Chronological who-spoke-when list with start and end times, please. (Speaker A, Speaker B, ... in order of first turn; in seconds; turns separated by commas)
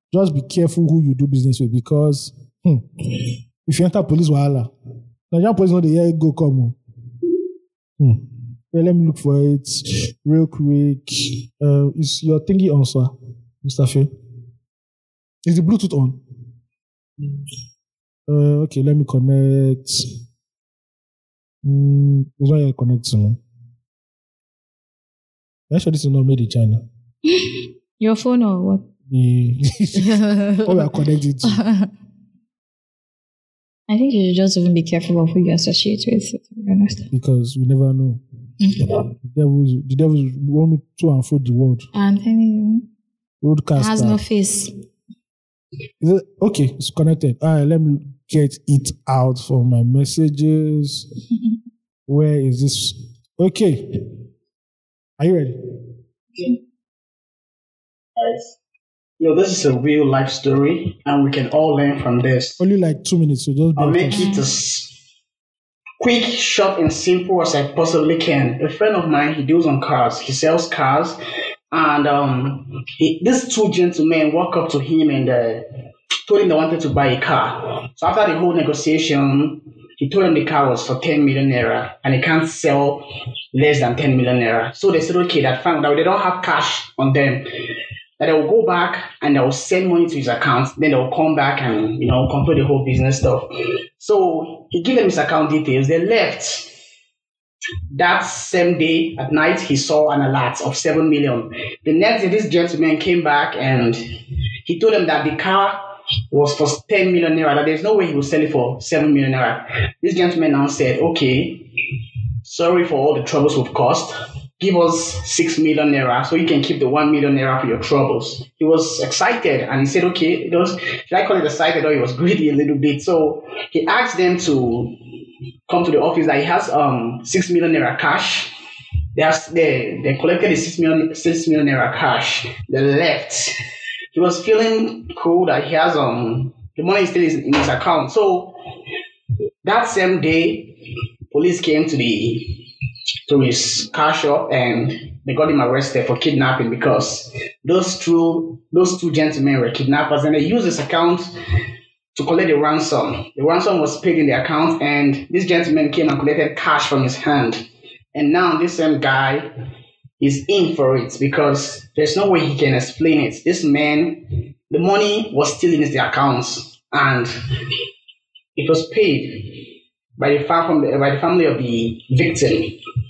Speaker A: 0.1-4.7, Speaker A: 5.3-6.8, Speaker A: 8.0-14.1, Speaker A: 15.4-16.2, Speaker A: 18.3-20.1, Speaker A: 21.6-23.4, Speaker A: 25.7-26.8, Speaker B: 27.3-28.9, Speaker A: 29.1-31.6, Speaker B: 29.9-31.9, Speaker B: 33.9-37.1, Speaker A: 37.1-38.2, Speaker B: 38.6-38.9, Speaker A: 39.2-41.9, Speaker B: 41.9-42.9, Speaker A: 43.4-44.2, Speaker B: 43.8-44.7, Speaker A: 46.0-51.1, Speaker A: 52.1-54.0, Speaker A: 55.2-55.6, Speaker C: 58.1-58.5, Speaker C: 59.2-62.6, Speaker A: 62.6-64.3, Speaker C: 63.8-64.9, Speaker B: 64.1-64.4, Speaker C: 66.0-71.2, Speaker C: 71.7-75.6, Speaker C: 76.2-87.5, Speaker C: 88.2-96.7, Speaker C: 97.9-104.0, Speaker C: 104.6-111.7, Speaker C: 112.4-125.0, Speaker C: 125.7-128.5, Speaker C: 129.1-133.5, Speaker C: 134.1-138.6, Speaker C: 139.6-140.7, Speaker C: 141.3-142.7, Speaker C: 143.3-151.3, Speaker C: 152.1-159.5, Speaker C: 160.2-167.3, Speaker C: 168.6-172.8